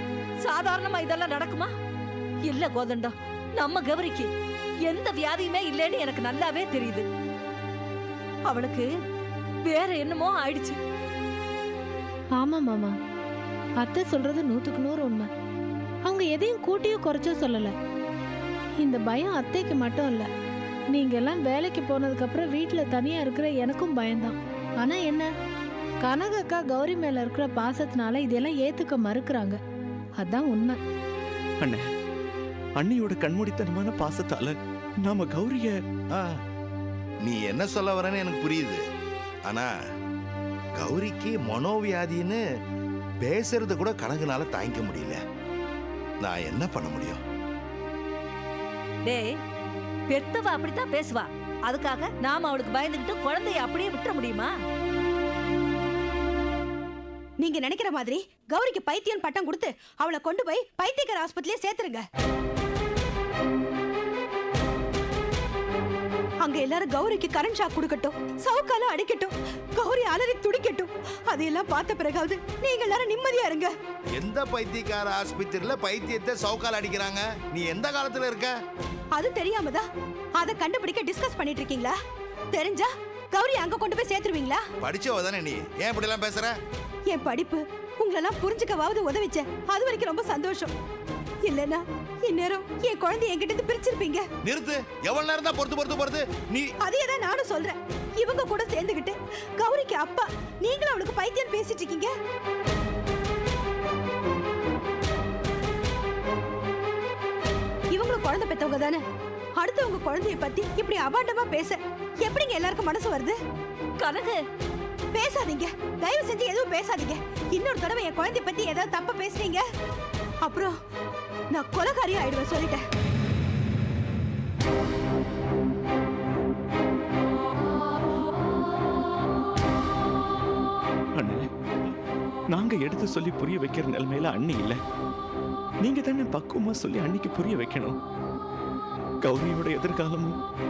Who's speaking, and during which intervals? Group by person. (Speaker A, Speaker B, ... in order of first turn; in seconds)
Speaker A: 0.4-1.7, 2.5-4.3, 4.8-7.0, 8.5-8.9, 9.7-10.8, 50.1-54.5, 114.0-114.4
Speaker B: 12.3-12.9, 13.8-15.3, 16.0-17.7, 18.8-20.3, 20.9-25.3, 26.0-29.6, 30.2-30.8
Speaker C: 32.8-34.5, 35.0-35.7, 131.2-131.5, 132.5-134.8, 135.8-137.9, 139.2-140.3
Speaker D: 37.2-38.8, 40.8-42.4, 43.2-45.2, 46.2-47.2, 74.2-78.5, 84.8-86.5, 94.4-96.7
Speaker E: 57.4-62.0, 66.4-73.7, 79.1-82.0, 82.5-84.6, 87.1-90.7, 91.5-94.2, 96.8-102.1, 107.9-109.0, 109.6-113.4, 115.1-119.6, 120.4-120.8, 121.5-122.8